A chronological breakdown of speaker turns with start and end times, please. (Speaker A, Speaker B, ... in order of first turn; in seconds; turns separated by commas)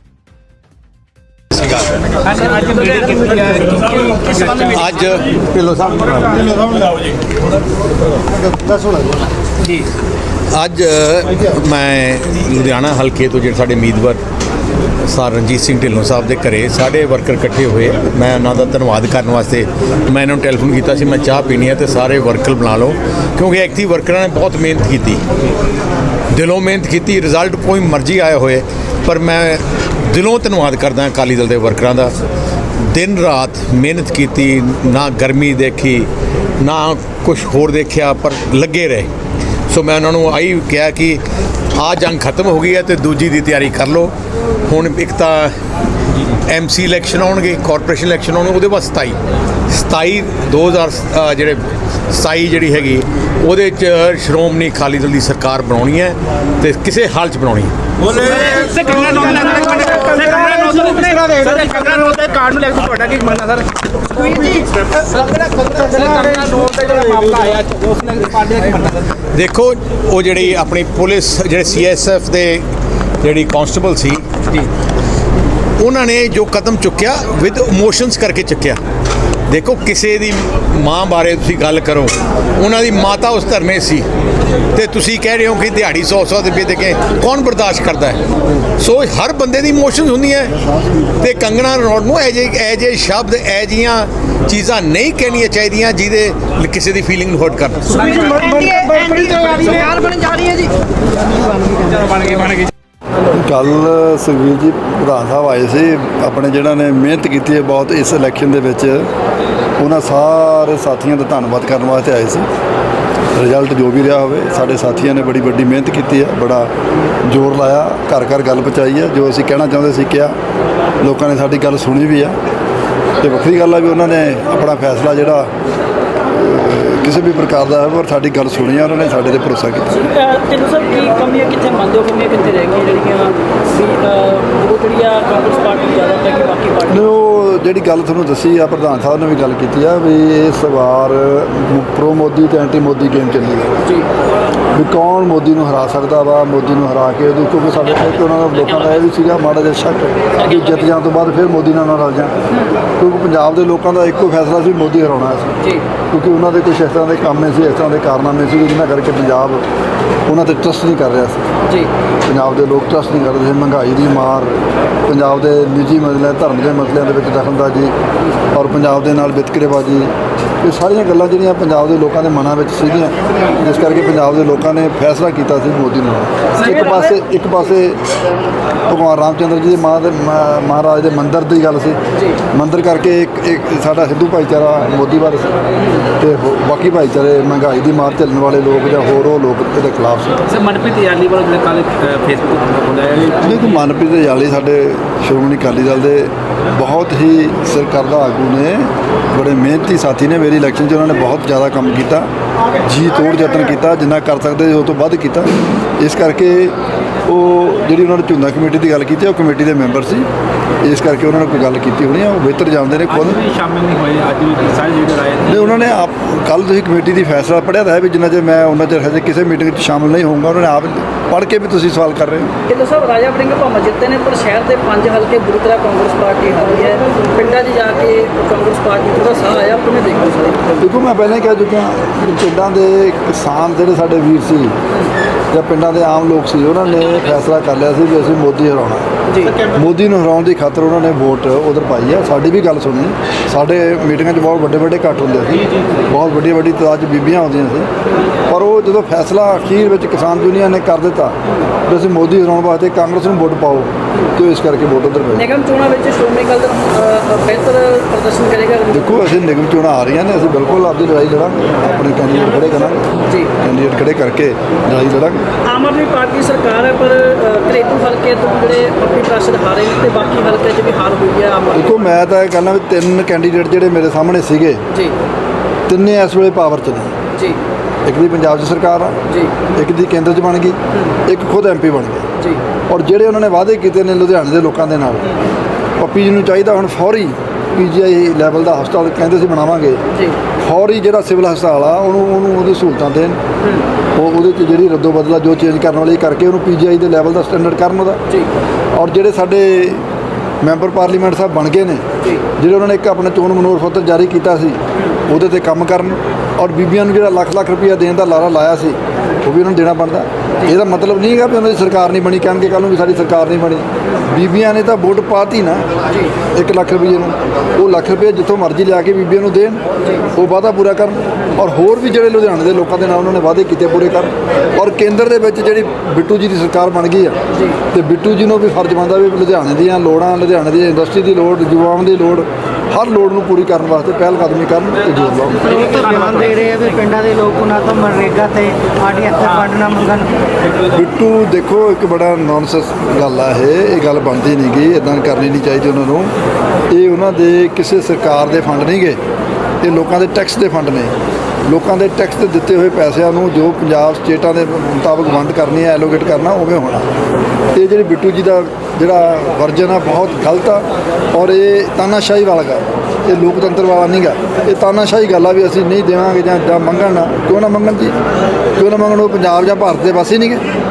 Speaker A: 1.6-2.1, Speaker B: 2.4-3.8, Speaker A: 4.3-6.8, Speaker A: 10.5-14.2, Speaker A: 15.1-25.2, Speaker A: 26.3-32.1, Speaker A: 32.9-36.1, Speaker A: 36.6-39.1, Speaker A: 39.7-41.2, Speaker A: 41.7-44.1, Speaker A: 44.6-45.5, Speaker A: 46.3-49.2, Speaker A: 49.7-57.7, Speaker B: 58.1-69.1, Speaker A: 69.3-72.7, Speaker A: 73.2-74.7, Speaker A: 75.8-78.8, Speaker A: 79.5-84.1, Speaker A: 84.7-88.2, Speaker A: 88.8-98.1, Speaker B: 98.0-100.7, Speaker B: 101.3-102.7, Speaker C: 103.3-109.1, Speaker C: 109.8-112.5, Speaker C: 113.3-116.7, Speaker C: 117.3-120.4, Speaker C: 121.0-122.4, Speaker C: 123.2-125.5, Speaker C: 126.3-129.9, Speaker D: 129.9-137.1, Speaker C: 136.9-143.7, Speaker C: 144.7-152.3, Speaker C: 153.0-155.5, Speaker C: 156.1-159.6, Speaker C: 160.3-161.4, Speaker C: 162.2-167.9, Speaker C: 168.5-170.1, Speaker C: 170.6-178.0, Speaker D: 176.6-177.1, Speaker C: 178.9-182.0, Speaker C: 182.5-185.6, Speaker C: 186.2-190.4, Speaker B: 190.5-193.8, Speaker C: 193.4-202.3, Speaker C: 202.8-210.3, Speaker C: 210.8-213.4, Speaker B: 213.1-215.8, Speaker C: 215.5-222.5, Speaker D: 222.7-230.8, Speaker C: 230.8-234.8, Speaker C: 235.5-239.1, Speaker D: 239.3-239.6, Speaker C: 239.6-247.9, Speaker C: 248.5-251.4, Speaker C: 251.9-255.5, Speaker D: 255.3-259.1, Speaker C: 258.9-263.1, Speaker D: 263.2-263.5, Speaker C: 263.6-265.5, Speaker D: 265.6-271.9, Speaker C: 271.7-274.8, Speaker C: 275.9-277.1, Speaker C: 278.1-279.2, Speaker C: 279.8-282.3, Speaker C: 282.9-285.3, Speaker C: 286.0-290.0, Speaker D: 290.1-290.4, Speaker C: 290.6-293.4, Speaker C: 294.2-298.2, Speaker C: 298.9-300.1, Speaker C: 300.6-302.0, Speaker C: 302.6-315.9, Speaker C: 316.5-327.4, Speaker C: 327.9-335.8, Speaker B: 335.7-336.6, Speaker E: 336.6-340.3, Speaker B: 339.3-339.6, Speaker C: 340.9-346.3, Speaker C: 346.9-349.2, Speaker C: 349.8-351.1, Speaker C: 351.7-357.1, Speaker C: 357.7-368.1, Speaker C: 368.8-370.6